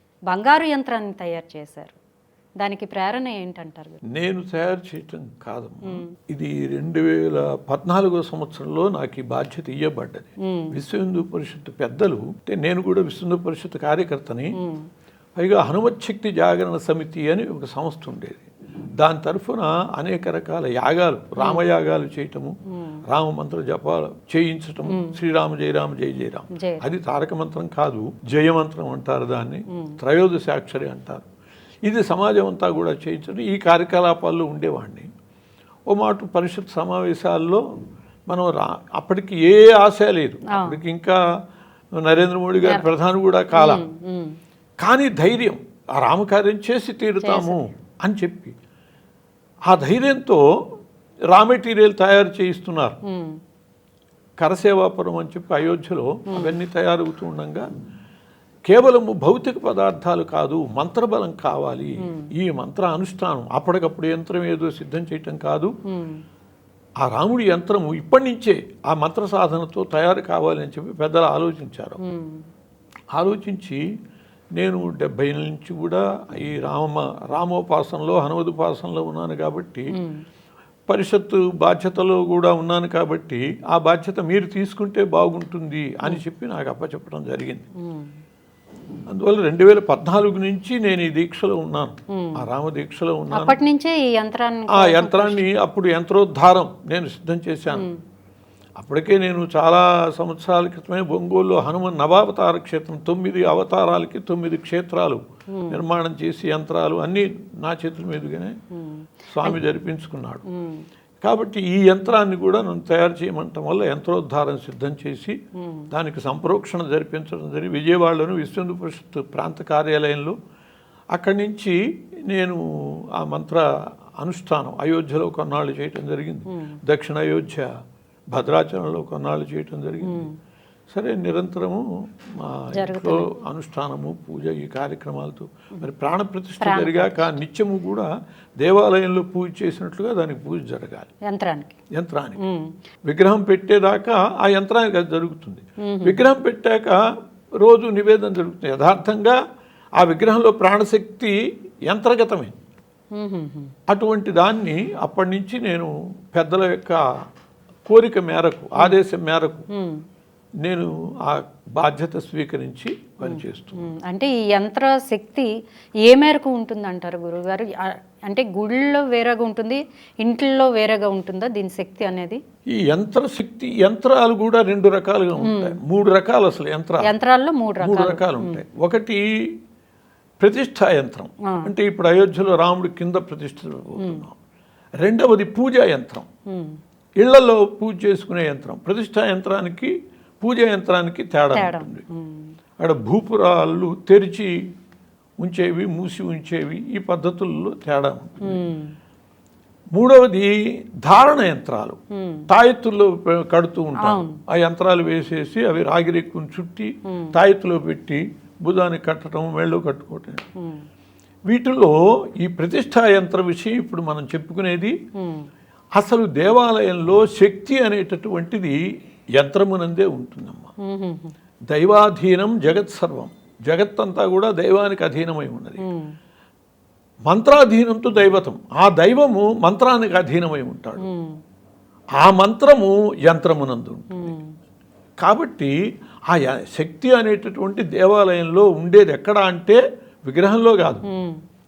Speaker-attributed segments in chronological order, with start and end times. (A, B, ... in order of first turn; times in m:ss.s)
0:00.3-0:02.0 A
0:02.6-0:04.0 A
0:04.1-0:14.6 B
0:14.6-0:14.8 A
0:15.4-0:18.5 B
0:19.0-0:22.5 B
0:23.1-0:31.3 B
0:24.9-0:25.2 A
0:26.6-0:26.8 A
0:29.7-0:30.0 A
0:31.9-0:35.1 B
0:35.9-0:37.6 B
0:38.3-0:41.2 B
0:42.0-0:43.8 B
0:43.5-0:44.4 A
0:44.8-0:48.5 B
0:47.2-0:47.6 A
0:49.7-0:50.4 B
0:51.3-0:53.0 B
0:53.1-0:53.4 A
0:54.4-0:57.7 B
0:58.7-1:05.7 B
1:05.9-1:06.2 A
1:07.0-1:12.0 B
1:12.0-1:12.5 A
1:13.2-1:13.8 B
1:14.6-1:19.9 B
1:20.0-1:20.2 A
1:20.9-1:27.6 B
1:27.8-1:28.1 A
1:29.1-1:33.6 B
1:32.1-1:32.4 A
1:33.3-1:35.5 A
1:34.8-1:37.9 B
1:38.8-1:48.6 B
1:45.5-1:45.8 A
1:48.7-1:49.6 A
1:49.3-1:50.4 B
1:50.5-1:50.8 A
1:51.2-1:55.4 B
1:55.6-1:55.9 A
1:55.9-2:00.4 B
2:01.2-2:01.8 B
2:02.3-2:02.6 B
2:03.2-2:03.6 B
2:04.2-2:07.7 B
2:06.5-2:06.8 A
2:08.3-2:10.3 B
2:10.0-2:10.3 A
2:10.9-2:11.8 B
2:12.4-2:21.1 B
2:12.7-2:13.3 A
2:16.6-2:17.4 A
2:21.3-2:21.8 A
2:21.9-2:22.4 B
2:22.4-2:22.7 A
2:23.1-2:27.0 B
2:25.8-2:26.2 A
2:27.6-2:29.4 B
2:30.0-2:31.4 B
2:31.9-2:32.5 B
2:33.2-2:33.7 A
2:33.9-2:37.0 B
2:37.9-2:39.6 B
2:39.7-2:40.0 A
2:40.6-2:43.9 B
2:43.2-2:45.5 A
2:46.1-2:52.4 A
2:52.7-2:57.1 B
2:55.4-2:55.8 A
2:57.0-2:58.6 A
2:57.8-2:59.2 B
3:00.4-3:04.4 B
3:05.0-3:06.3 B
3:06.5-3:06.8 A
3:07.2-3:12.0 B
3:11.6-3:12.5 A
3:12.8-3:14.5 B
3:15.4-3:18.7 B
3:18.5-3:18.9 A
3:20.0-3:20.5 B
3:21.0-3:22.0 B
3:22.1-3:22.5 A
3:22.5-3:30.4 B
3:24.0-3:24.4 A
3:31.5-3:35.0 B
3:35.2-3:35.5 A
3:36.0-3:38.8 B
3:39.4-3:40.7 B
3:40.9-3:41.3 A
3:41.7-3:45.8 B
3:45.8-3:46.1 A
3:47.3-3:51.0 B
3:51.0-3:51.4 A
3:52.2-3:54.3 B
3:54.1-3:54.5 A
3:55.2-3:55.7 B
3:56.3-4:01.0 B
4:01.1-4:01.4 A